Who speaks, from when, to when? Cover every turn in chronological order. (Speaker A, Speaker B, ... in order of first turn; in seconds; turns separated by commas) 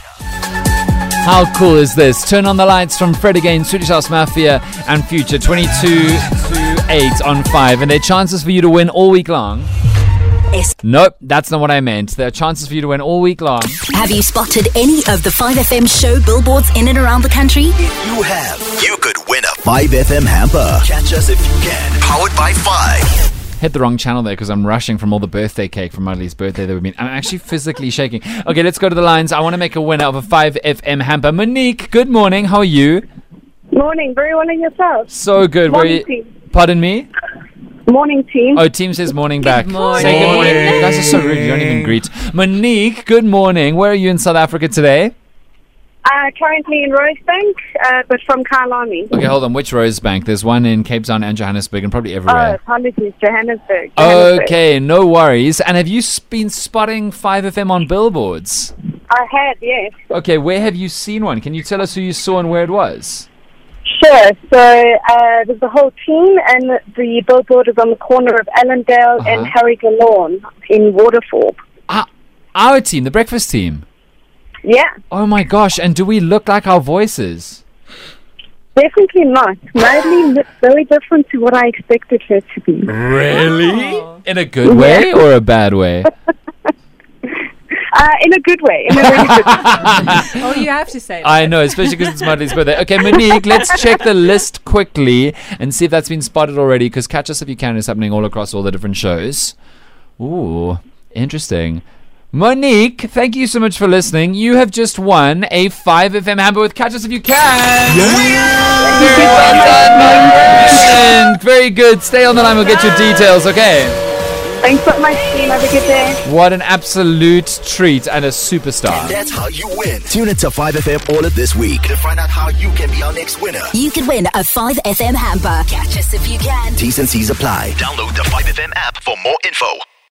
Speaker A: 1.2-9.7, Speaker A: 10.8-13.8, Speaker B: 13.9-17.8, Speaker C: 17.8-23.1, Speaker A: 23.6-33.0, Speaker D: 33.7-35.1, Speaker A: 35.1-37.1, Speaker D: 35.7-36.3, Speaker D: 37.9-38.6, Speaker A: 38.5-45.1, Speaker E: 39.4-41.3, Speaker D: 46.0-49.1, Speaker A: 49.1-52.6, Speaker D: 52.3-54.5, Speaker A: 54.0-58.7, Speaker D: 59.1-60.0, Speaker A: 60.1-63.3, Speaker D: 63.9-71.5, Speaker A: 69.2-69.5, Speaker A: 71.9-73.8, Speaker D: 74.6-74.9, Speaker A: 75.1-77.6, Speaker D: 78.8-83.0, Speaker A: 82.9-86.1, Speaker E: 83.5-84.2, Speaker D: 84.6-85.1, Speaker D: 87.9-89.8, Speaker A: 88.9-90.5, Speaker E: 89.9-92.0, Speaker A: 91.2-99.5, Speaker A: 100.2-114.0, Speaker C: 108.1-108.7, Speaker D: 108.8-111.0, Speaker D: 114.6-116.2, Speaker A: 116.2-119.2, Speaker C: 118.9-123.7, Speaker B: 123.7-126.8, Speaker C: 126.8-129.8